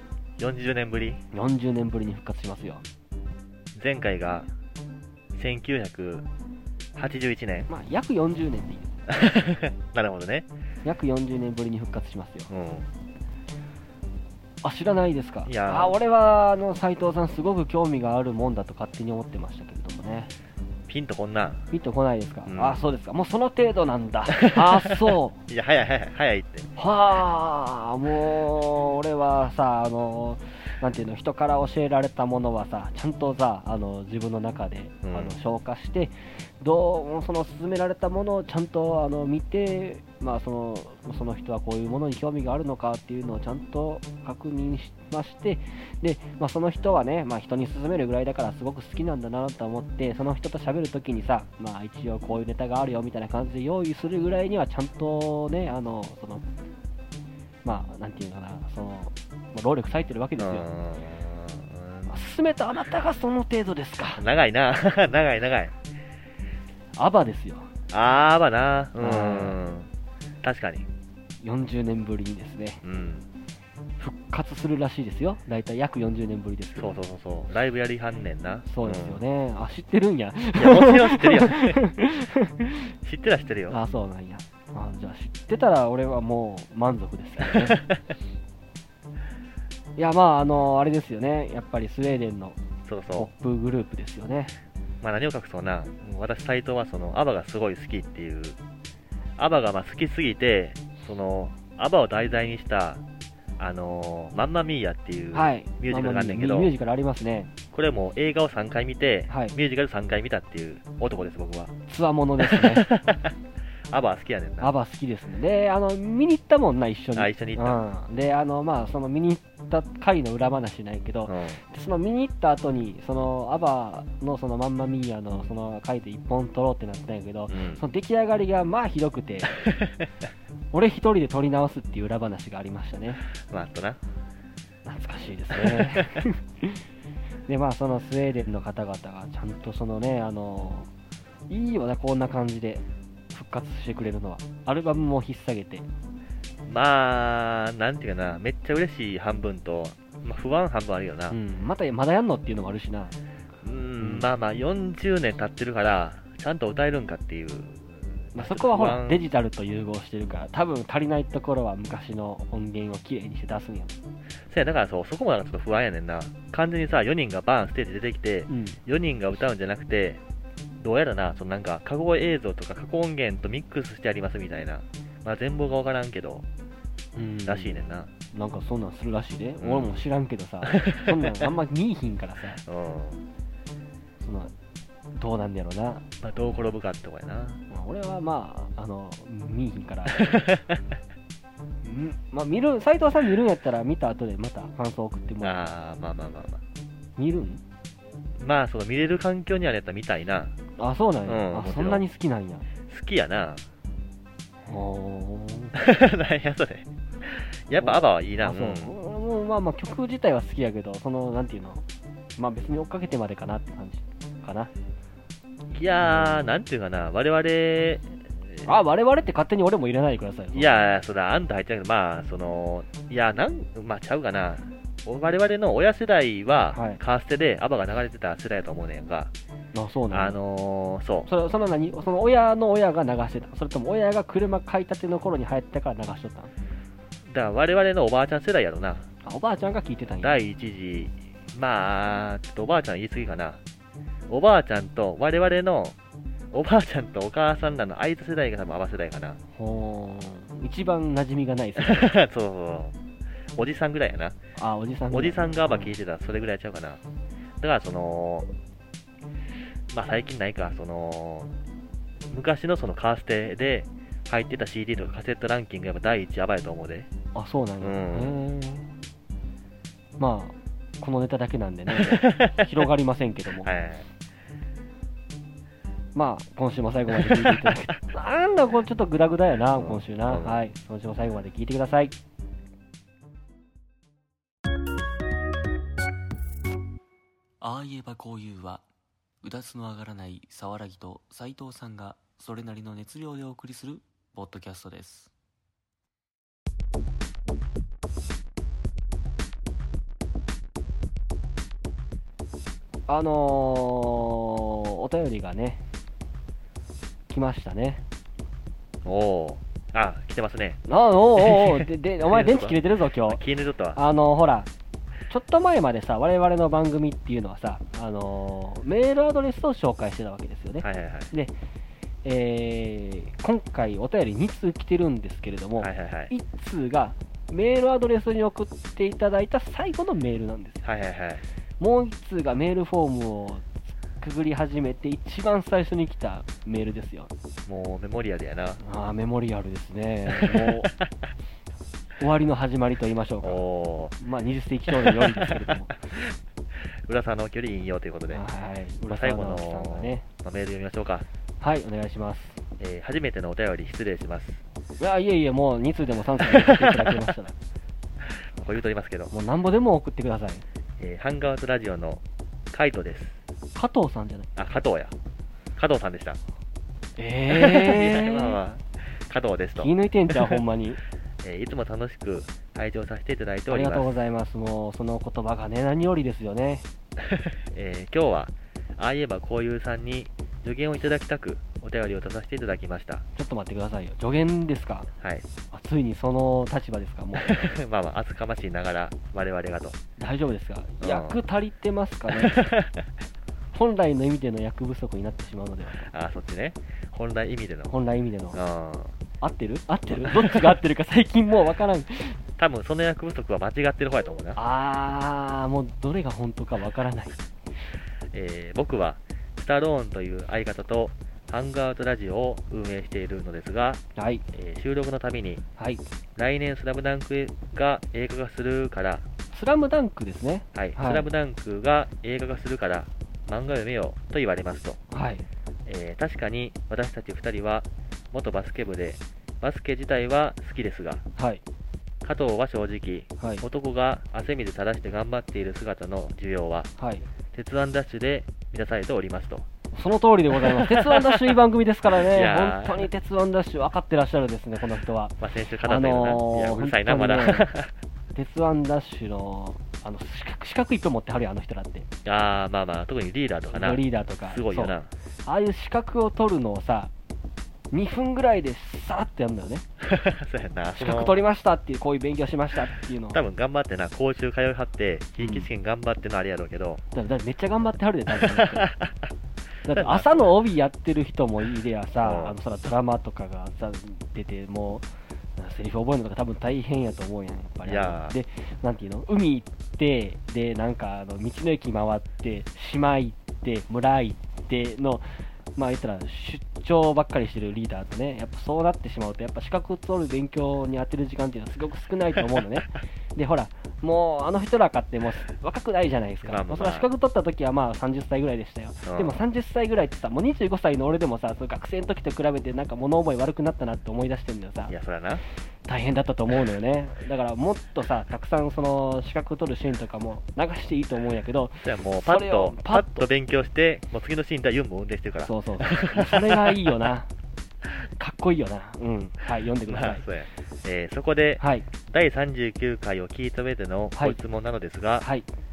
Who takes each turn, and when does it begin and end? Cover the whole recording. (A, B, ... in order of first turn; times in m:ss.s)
0:00.4-0:01.2 A
0:01.3-0:02.8 B
0:03.8-0:04.5 A
0:05.3-0:06.3 A
0:07.0-0:07.7 A
0:07.7-0:08.9 B
0:09.1-0:10.5 A
0:10.8-0:12.5 B
0:12.5-0:12.9 A
0:14.6-0:20.3 B
0:15.5-0:16.0 A
0:20.9-0:21.6 A
0:21.7-0:25.4 B
0:22.5-0:22.8 A
0:24.3-0:26.7 A
0:26.8-0:56.4 B
0:35.0-0:35.4 A
0:57.6-1:00.7 B
1:00.4-1:02.2 A
1:02.1-1:04.2 B
1:04.2-1:05.8 A
1:07.0-1:07.7 B
1:07.9-1:09.9 A
1:09.0-1:09.6 B
1:10.4-1:10.9 A
1:11.4-1:12.8 B
1:12.8-1:13.3 A
1:14.0-1:17.0 B
1:16.8-1:19.2 A
1:18.7-1:22.9 B
1:20.6-1:21.8 A
1:23.0-1:23.8 A
1:23.7-1:27.8 B
1:27.7-1:28.0 A
1:30.0-1:32.6 B
1:32.9-1:33.3 A
1:33.2-1:34.6 B
1:35.0-1:38.6 A
1:39.4-1:43.0 A
1:43.6-1:46.7 A
1:45.3-1:47.5 B
1:47.7-1:51.7 A
1:49.3-1:49.6 B
1:51.9-1:52.9 B
1:52.4-1:53.3 A
1:53.9-1:54.7 A
1:54.6-2:09.6 B
1:57.2-1:57.8 A
2:01.3-2:01.6 A
2:07.5-2:07.8 A
2:09.6-2:10.1 A
2:10.7-2:13.2 B
2:13.4-2:14.0 A
2:14.8-2:16.8 B
2:15.5-2:16.2 A
2:17.5-2:20.9 B
2:21.5-2:25.9 B
2:26.7-2:31.4 A
2:31.3-2:33.2 B
2:33.6-2:39.2 A
2:34.0-2:34.3 B
2:38.3-2:44.0 B
2:44.5-2:50.2 A
2:48.5-2:48.8 B
2:50.8-2:56.4 A
2:57.2-3:02.6 B
2:57.5-2:58.1 A
2:59.6-3:00.1 A
3:00.7-3:01.5 A
3:02.6-3:03.2 A
3:04.2-3:04.5 B
3:05.2-3:06.0 B
3:06.2-3:07.6 A
3:07.7-3:10.5 B
3:10.3-3:10.8 A
3:11.8-3:15.7 B
3:15.4-3:16.6 A
3:17.2-3:17.6 B
3:18.4-3:20.5 A
3:20.8-3:22.6 B
3:21.3-3:22.0 A
3:22.9-3:23.6 A
3:24.7-3:25.8 B
3:25.8-3:28.9 A
3:27.8-3:31.8 B
3:32.4-3:34.7 B
3:35.7-3:38.7 A
3:36.0-3:36.5 B
3:38.6-3:40.7 B
3:40.5-3:49.3 A
3:46.7-3:47.0 B
3:49.7-3:50.4 B
3:50.1-3:51.3 A
3:51.3-3:56.5 B
3:57.3-3:59.1 A
3:59.2-4:00.4 B
4:00.2-4:03.6 A
4:04.3-4:06.0 A
4:06.5-4:09.4 A
4:09.6-4:12.1 B
4:11.8-4:13.0 A
4:13.6-4:14.4 A
4:14.6-4:15.9 B
4:15.1-4:17.0 A
4:17.6-4:18.5 A
4:19.9-4:21.5 A
4:22.3-4:27.1 A
4:27.4-4:28.9 B
4:27.8-4:28.4 A
4:30.2-4:33.7 B
4:31.9-4:32.7 A
4:33.6-4:34.1 A
4:36.2-4:42.2 B
4:37.1-4:37.8 A
4:39.8-4:40.6 A
4:47.6-4:48.8 C
4:47.6-4:48.8 B
4:49.4-4:55.3 C
4:49.4-4:55.1 B
5:03.1-5:05.8 B
5:07.3-5:08.0 B
5:09.0-5:10.8 A
5:10.9-5:13.4 B
5:11.4-5:14.0 A
5:14.0-5:14.7 B
5:15.3-5:21.5 B
5:20.8-5:21.3 A
5:22.2-5:30.8 B
5:25.8-5:26.3 A
5:30.8-5:31.4 A
5:31.8-5:37.3 B
5:37.7-5:38.8 A
5:38.8-5:40.9 B
5:40.3-5:41.1 A
5:42.2-5:43.6 B
5:43.4-5:44.2 A
5:44.2-5:46.2 B
5:45.0-5:46.4 A
5:47.1-5:48.4 A
5:48.3-5:50.2 B
5:49.2-5:51.3 A
5:51.6-5:52.6 B
5:52.8-5:54.6 A
5:55.0-5:57.6 B
5:56.5-5:57.3 A
5:58.4-5:59.3 A
5:59.3-6:00.6 B
6:01.0-6:03.4 A
6:03.8-6:04.5 B
6:04.6-6:05.1 A
6:05.8-6:06.4 A
6:07.2-6:08.6 B
6:07.5-6:10.6 A
6:09.8-6:11.0 B
6:11.4-6:14.1 A
6:13.7-6:16.9 B
6:17.2-6:23.2 A
6:23.4-6:25.1 B
6:25.2-6:25.5 A
6:25.7-6:27.6 B
6:27.4-6:30.0 A
6:30.2-6:32.7 B
6:31.0-6:31.4 A
6:32.3-6:33.1 A
6:33.7-6:36.1 B
6:36.0-6:37.9 A
6:37.9-6:38.6 B
6:38.5-6:39.2 A
6:39.4-6:42.4 B
6:40.2-6:40.7 A
6:42.6-6:44.6 A
6:44.6-6:47.4 B
6:48.3-6:54.0 A
6:54.2-6:54.4 B
6:54.5-6:55.6 A
6:56.4-6:59.2 A
6:59.5-7:01.3 B
7:00.7-7:05.0 A
7:05.1-7:05.4 B
7:05.9-7:11.2 A
7:11.4-7:11.6 B
7:12.2-7:16.9 A
7:17.0-7:17.3 B
7:17.5-7:19.7 A
7:19.9-7:27.7 B
7:20.5-7:21.6 A
7:22.1-7:23.1 A
7:25.4-7:27.9 A
7:28.4-7:32.1 B
7:32.2-7:35.1 A
7:33.7-7:34.9 B
7:35.4-7:37.1 B
7:37.9-7:39.8 B
7:40.0-7:41.4 A
7:41.0-7:43.4 B
7:43.3-7:47.0 A
7:45.4-7:45.7 B
7:47.1-7:48.9 B
7:48.4-7:49.3 A
7:49.8-8:24.9 B
7:49.9-7:50.5 A
7:52.2-7:52.6 A
7:57.8-7:58.4 A
8:16.4-8:17.1 A
8:19.1-8:19.4 A
8:24.9-8:25.4 A
8:25.9-8:33.3 B
8:31.8-8:37.0 A
8:35.4-8:37.3 B
8:38.2-8:40.2 B
8:39.9-8:45.3 A
8:41.6-8:41.9 B
8:45.2-8:45.5 B